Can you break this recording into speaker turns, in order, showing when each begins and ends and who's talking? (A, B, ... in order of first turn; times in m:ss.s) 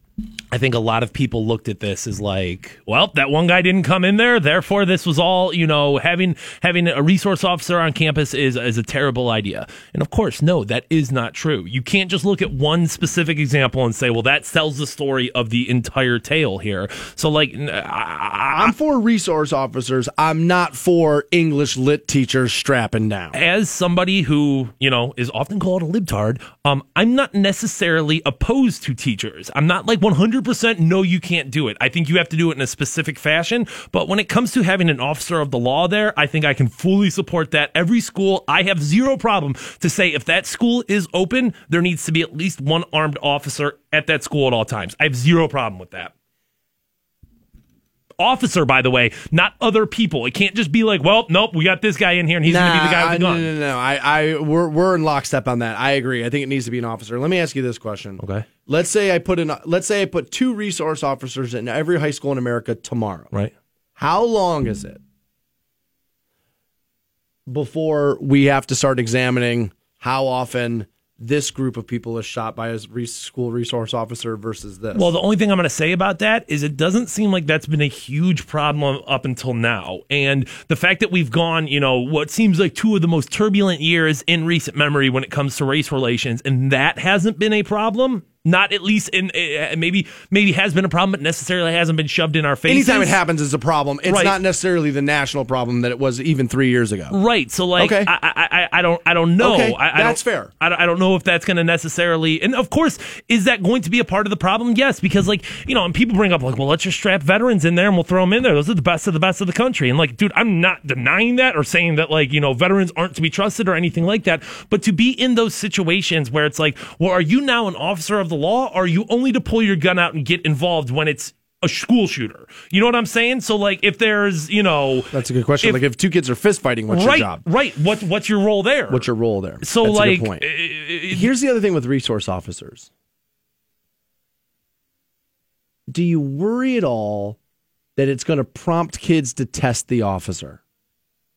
0:00.5-0:18.7 A
0:18.5-0:23.4 B
0:23.3-0:46.1 A
0:48.2-0:53.5 A
0:52.4-1:03.3 B
0:58.2-0:58.5 A
1:04.0-1:05.0 B
1:07.5-1:15.1 B
1:14.9-1:33.2 A
1:32.7-1:37.2 B
1:34.0-1:34.4 A
1:37.1-2:05.8 A
1:37.8-1:38.1 B
1:39.4-1:40.5 B
2:05.1-2:07.4 B
2:06.9-2:09.0 A
2:08.9-2:10.4 B
2:09.6-2:11.3 A
2:11.1-2:12.9 B
2:15.9-2:17.4 B
2:18.0-2:20.6 B